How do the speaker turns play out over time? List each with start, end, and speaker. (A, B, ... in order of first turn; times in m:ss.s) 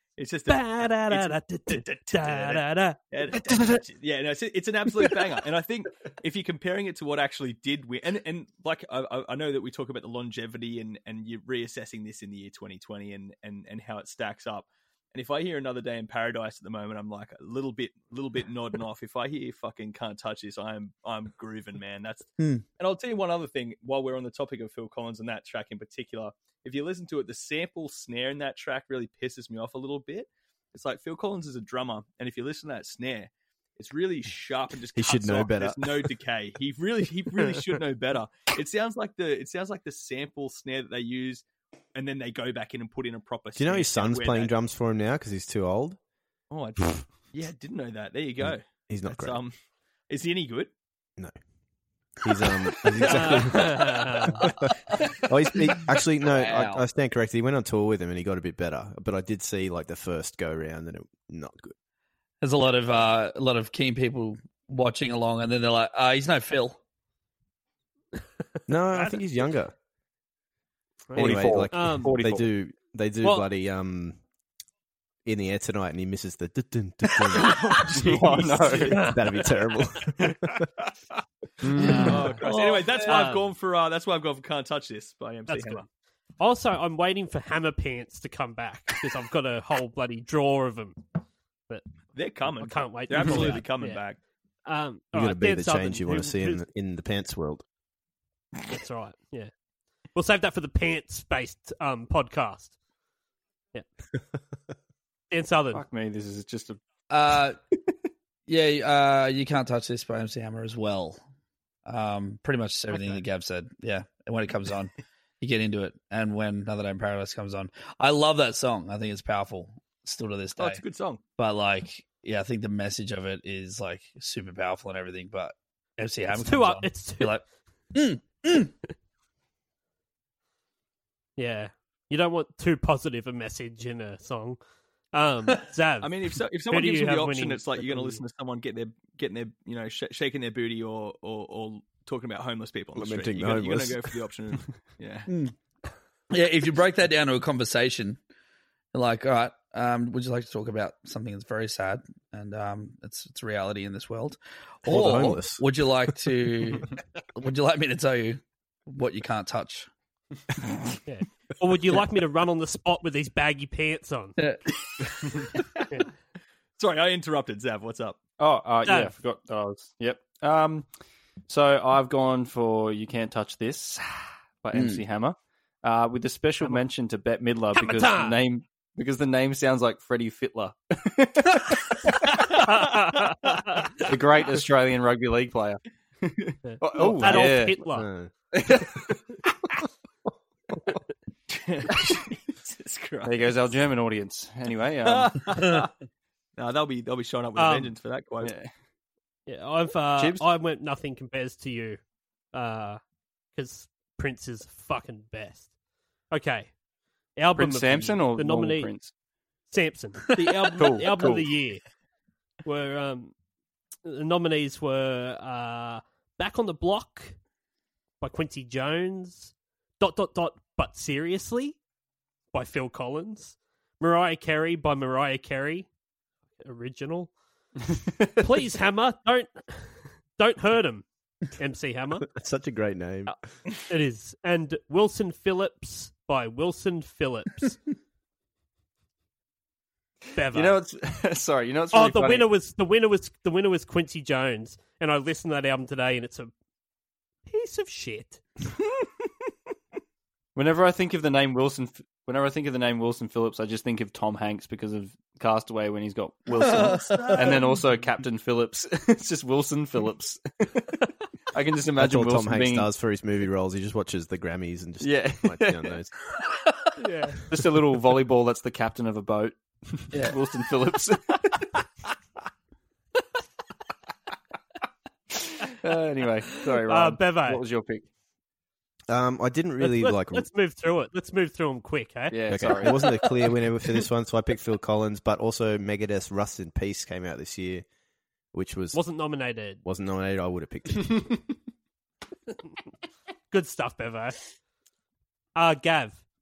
0:00.2-0:44.5 A
0:00.5-0:03.0 B
0:22.4-0:22.6 C
0:35.0-0:36.1 D
0:43.6-0:46.0 D
0:46.5-0:49.5 A
0:48.4-0:49.4 D
0:50.1-0:50.7 A
0:52.2-1:01.7 D
0:53.0-0:53.7 A
0:53.1-0:54.4 B
0:55.5-0:56.8 C
1:02.4-1:06.8 C
1:08.7-1:09.7 D
1:11.1-1:12.2 B
1:11.2-1:12.4 E
1:11.2-1:14.2 D
1:15.2-1:17.8 D
1:17.4-1:19.1 A
1:17.7-1:19.1 E
1:18.9-1:19.2 B
1:19.0-1:20.7 D
1:21.6-1:22.3 E
1:21.8-1:23.3 C
1:22.0-1:25.8 A
1:22.9-1:23.5 B
1:25.5-1:25.9 B
1:26.4-1:31.0 B
1:32.2-1:34.2 A
1:32.4-1:34.0 B
1:34.7-1:36.6 B
1:35.1-1:37.6 D
1:38.7-1:39.5 B
1:40.2-1:42.7 B
1:45.3-1:45.8 B
1:45.7-1:46.8 E
1:47.1-1:47.6 C
1:48.5-1:51.2 C
1:51.8-2:00.8 C
1:52.9-1:53.2 B
2:00.6-2:01.2 A
2:01.4-2:07.4 C
2:06.3-2:07.4 B
2:07.9-2:08.7 C
2:11.4-2:14.6 B
2:15.1-2:16.1 B
2:16.0-2:25.3 A
2:16.7-2:18.2 B
2:23.0-2:24.2 D
2:25.3-2:25.5 C
2:26.3-2:28.2 C
2:28.9-2:39.9 C
2:34.9-2:35.6 D
2:41.1-2:44.4 B
2:44.4-2:44.6 C
2:45.4-2:45.8 A
2:46.8-2:48.2 A
2:48.4-2:50.9 E
2:48.9-2:49.1 B
2:51.5-3:02.6 E
2:54.8-2:55.0 C
2:57.8-2:58.4 B
3:02.7-3:03.4 B
3:04.0-3:05.8 E
3:06.6-3:08.1 B
3:06.8-3:07.8 E
3:07.9-3:08.9 D
3:08.6-3:08.9 E
3:11.5-3:13.5 A
3:13.2-3:15.4 E
3:15.0-3:15.9 A
3:16.6-3:18.5 A
3:17.6-3:17.9 B
3:18.4-3:18.7 E
3:19.5-3:22.0 B
3:20.2-3:20.5 E
3:22.5-3:23.0 B
3:23.5-3:25.7 B
3:26.3-3:26.7 B
3:27.4-3:28.9 B
3:27.6-3:29.1 E
3:29.7-3:31.8 B
3:30.8-3:31.5 E
3:32.6-3:33.3 B
3:34.0-3:37.4 B
3:38.2-3:41.8 B
3:42.5-3:45.9 B
3:46.6-3:47.3 B
3:48.4-3:52.3 B
3:52.3-3:53.4 D
3:53.9-3:57.8 B
4:00.4-4:00.8 B
4:00.5-4:02.5 E
4:01.9-4:06.5 B
4:07.5-4:08.4 B
4:10.6-4:21.0 E
4:16.6-4:17.8 A
4:16.6-4:17.4 C
4:21.5-4:22.9 E
4:22.0-4:26.1 D
4:25.0-4:26.0 E
4:27.0-4:27.4 B
4:27.4-4:31.7 E
4:30.1-4:30.4 C
4:35.6-4:38.0 E
4:36.8-4:37.6 B
4:39.1-4:40.5 D
4:39.8-4:42.4 B
4:42.3-4:43.3 E
4:42.5-4:47.8 D
4:48.5-4:49.0 D
4:48.9-4:49.8 B
4:49.8-4:51.3 D
4:53.5-4:54.4 B
4:55.6-4:56.2 B